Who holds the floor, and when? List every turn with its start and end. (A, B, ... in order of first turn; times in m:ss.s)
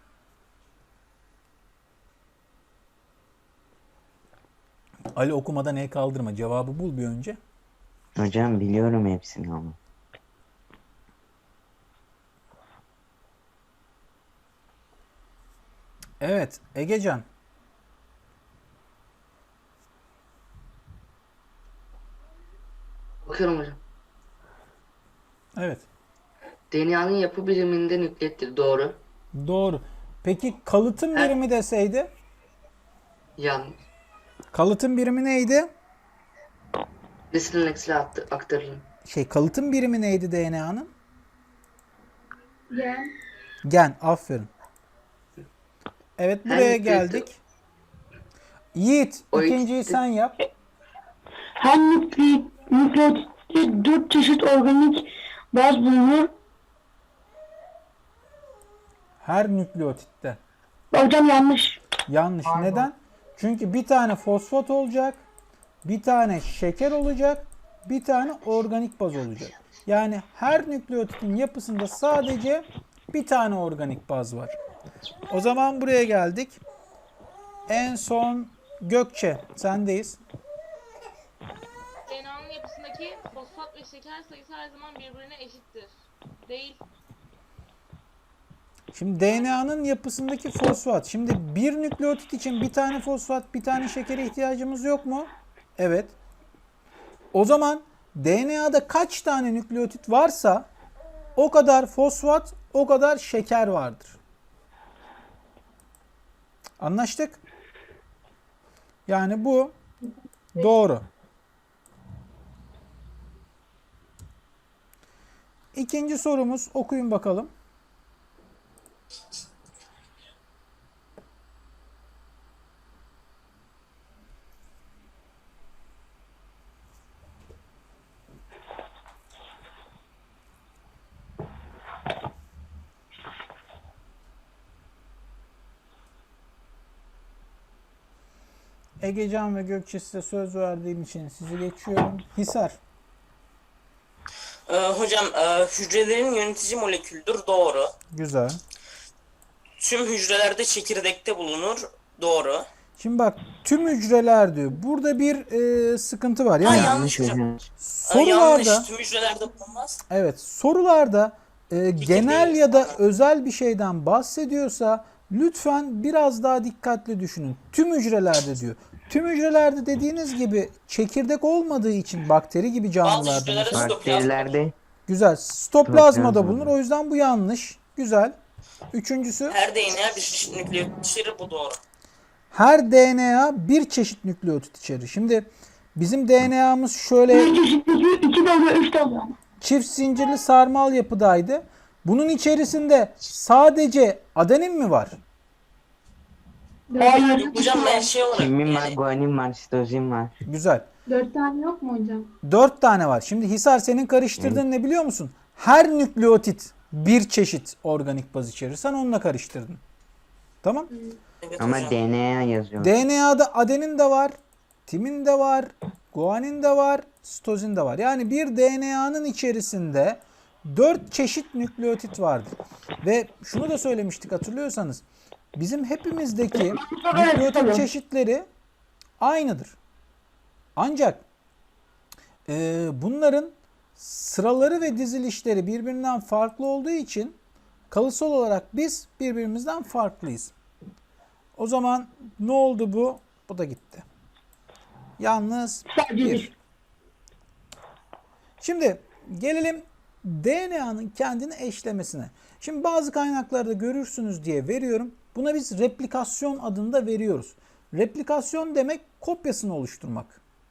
0:05.1-0:07.4 A
0:08.2-0:09.8 B
0:16.2-0:17.2 A
0:23.2-0:23.8 C
0:25.6-0:25.9 A
0:26.7-0:29.0 C
0:29.3-0:32.1 A
0:33.4-0:33.8 C
0:34.5-0:35.7 A
0:37.3-0:38.8 C
0:39.0-0:40.9 A
0:42.7-0:43.1 D
0:43.6-0:44.5 A
0:46.2-0:47.4 A
0:46.4-0:47.3 C
0:48.7-0:50.4 A
0:49.3-0:50.0 C
0:51.6-0:56.3 E
0:59.2-1:00.4 A
1:00.9-1:01.8 E
1:02.1-1:05.2 A
1:05.8-1:14.6 A
1:15.3-1:16.6 A
1:17.7-1:20.2 A
1:22.1-1:26.8 F
1:28.9-1:36.2 A
1:37.3-1:40.7 A
1:41.4-1:44.2 A
1:46.8-1:47.4 A
1:49.1-1:49.7 A
1:50.6-1:51.0 A
1:55.7-1:57.5 A
2:19.0-2:22.8 A
2:24.7-2:27.9 G
2:28.1-2:28.6 A
2:29.8-2:32.6 G
2:33.0-2:37.0 A
2:36.6-2:37.4 G
2:36.6-2:37.6 B
2:37.8-2:38.9 A
2:38.0-2:40.0 G
2:40.1-2:54.0 A
2:42.0-2:43.0 G
2:53.0-2:54.5 G
2:53.7-2:54.7 B
2:55.1-2:58.4 A
2:55.8-2:56.7 B
2:58.9-2:59.6 A
2:59.5-3:01.8 G
3:02.5-3:07.5 A
3:07.3-3:09.4 E
3:09.6-3:15.2 A
3:16.9-3:18.1 D
3:17.0-3:18.0 E
3:17.3-3:19.0 G
3:18.3-3:20.4 B
3:20.4-3:20.9 A
3:21.1-3:22.3 D
3:22.4-3:29.8 A
3:24.4-3:24.6 B
3:30.6-3:30.9 A
3:31.4-3:32.0 G
3:31.6-3:33.0 B
3:32.8-3:34.4 A
3:34.9-3:45.0 A
3:45.5-3:48.4 A
3:46.5-3:47.9 E
3:49.2-3:49.8 A
3:50.8-3:51.2 A
3:52.5-3:57.3 A
3:57.9-4:00.5 A
4:01.6-4:04.0 A
4:05.2-4:06.5 A
4:05.9-4:06.5 E
4:08.6-4:20.4 A